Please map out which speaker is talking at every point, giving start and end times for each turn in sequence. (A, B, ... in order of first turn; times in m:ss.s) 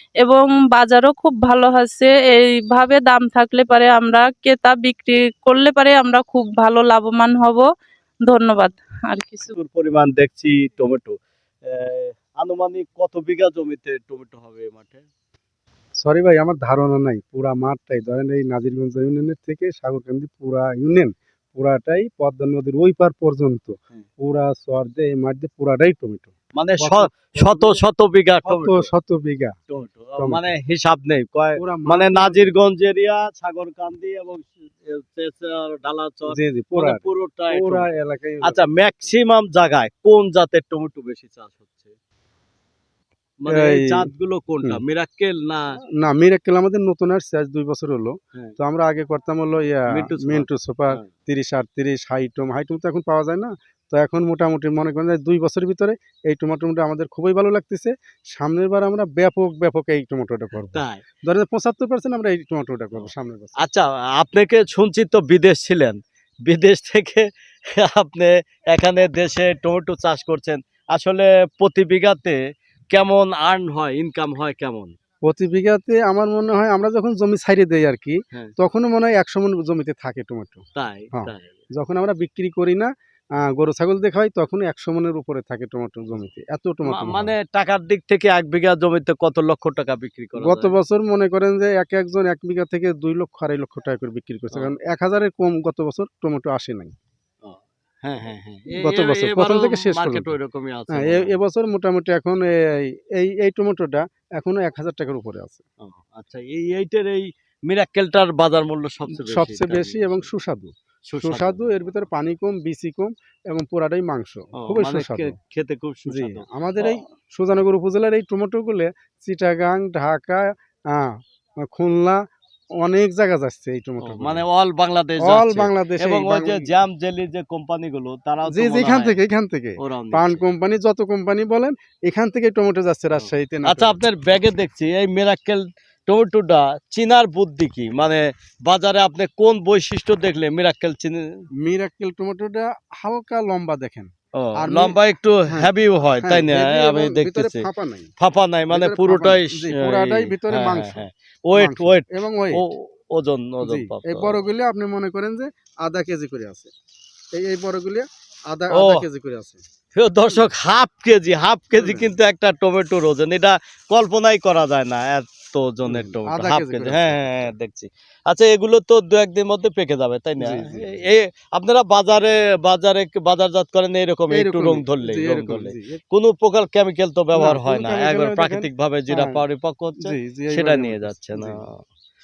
0:00.2-0:07.7 A
0:08.2-0:09.5 A
0:09.5-0:11.2 B
0:11.7-0:15.0 B
0:16.0-0:27.8 C
0:26.6-0:28.9 B
0:28.4-0:29.5 C
0:29.7-0:41.9 B
0:30.2-0:30.5 C
0:31.5-0:32.6 C
0:36.3-0:39.1 C
0:43.4-0:45.6 B
0:43.5-0:44.1 C
0:46.0-1:03.7 C
0:49.9-0:51.0 B
1:00.7-1:01.0 B
1:03.0-1:07.2 B
1:07.8-1:12.4 B
1:12.9-1:14.9 B
1:15.2-1:27.3 C
1:20.8-1:21.6 B
1:26.8-1:30.7 B
1:30.4-1:36.9 C
1:37.4-1:41.3 B
1:38.8-1:40.3 C
1:40.9-1:45.6 C
1:45.8-1:50.3 B
1:49.1-1:55.4 C
1:51.1-1:51.9 B
1:54.6-1:57.0 B
1:56.1-2:02.2 C
2:02.8-2:04.4 C
2:04.0-2:09.2 B
2:05.2-2:06.7 C
2:08.4-2:14.0 C
2:09.8-2:10.4 B
2:13.2-2:21.2 B
2:21.6-2:25.7 C
2:24.4-2:27.6 B
2:26.2-2:28.1 C
2:28.2-2:34.4 B
2:28.7-2:32.6 C
2:33.6-2:36.7 C
2:37.3-2:39.6 C
2:38.7-2:39.0 B
2:40.0-3:01.8 B
2:41.7-2:42.1 C
2:45.8-2:47.5 C
2:50.4-2:51.1 C
2:54.3-2:56.0 C
2:57.3-2:59.4 C
3:00.0-3:01.6 C